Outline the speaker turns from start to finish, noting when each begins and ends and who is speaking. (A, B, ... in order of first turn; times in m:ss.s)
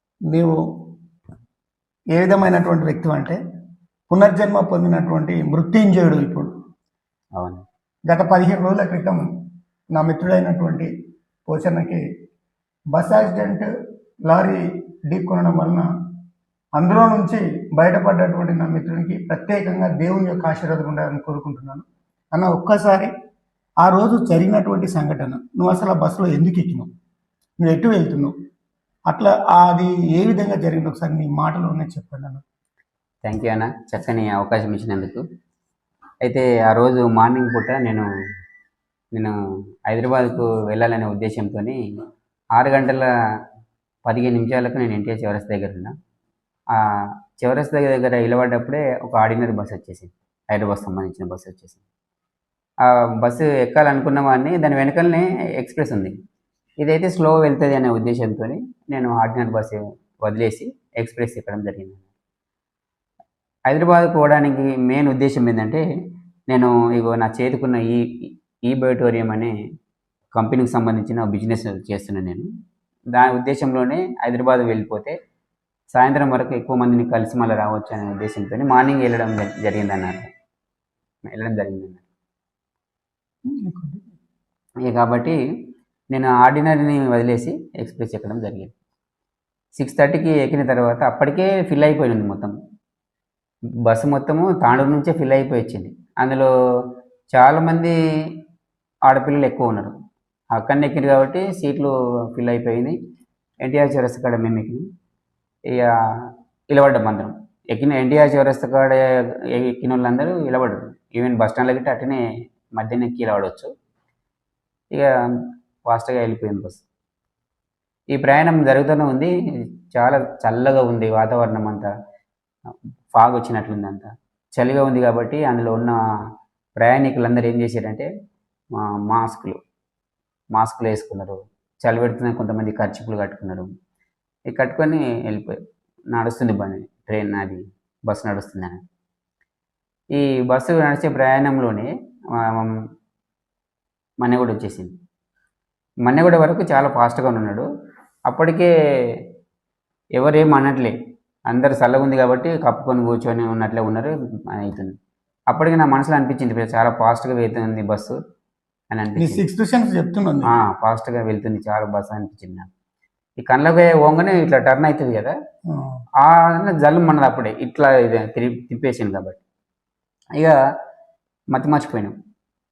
0:02.1-0:03.4 A
0:04.1-0:06.5 A
0:07.4-0:07.6 B
0:08.1-0:09.2 A
0:09.9-0:10.9 A
0:11.5-0:12.0 A
0:12.9-0:13.7 A
0:14.3-0:15.8 A
0:16.8-0:23.1 A
0:23.8-0:26.9 A
0:27.6-0:28.3 A
0:29.1-0:32.4 A
0:33.2-0:35.2 B
0:36.2-0:38.0 B
0:39.9-0:41.8 B
0:42.6-0:43.0 B
0:44.0-0:45.9 B
0:47.4-0:51.8 B
0:53.2-0:56.1 B
0:56.8-1:02.0 B
1:03.7-1:05.8 B
1:06.5-1:08.0 B
1:08.7-1:09.5 B
1:10.3-1:12.5 B
1:13.1-1:15.1 B
1:15.9-1:20.2 B
1:21.2-1:22.0 B
1:23.6-1:24.0 A
1:24.8-1:25.4 B
1:26.1-1:28.7 B
1:29.8-1:32.5 B
1:33.9-1:36.5 B
1:37.3-1:37.9 B
1:39.1-1:39.9 B
1:40.5-1:42.9 B
1:43.6-1:44.8 B
1:46.7-1:49.0 B
1:49.6-1:52.2 B
1:52.8-1:53.7 B
1:55.9-1:56.8 B
1:58.1-1:59.3 B
1:59.9-2:01.9 B
2:03.1-2:06.0 B
2:06.8-2:08.1 B
2:08.8-2:09.6 B
2:10.5-2:13.7 B
2:14.5-2:15.5 B
2:16.1-2:18.8 B
2:20.1-2:22.7 B
2:24.2-2:24.9 B
2:26.0-2:27.6 B
2:28.3-2:28.7 B
2:30.2-2:30.9 B
2:31.5-2:34.9 B
2:35.5-2:38.1 B
2:38.9-2:39.4 B
2:39.2-2:40.5 A
2:40.5-2:42.7 B
2:43.4-2:45.3 B
2:46.2-2:49.4 B
2:51.5-2:52.1 B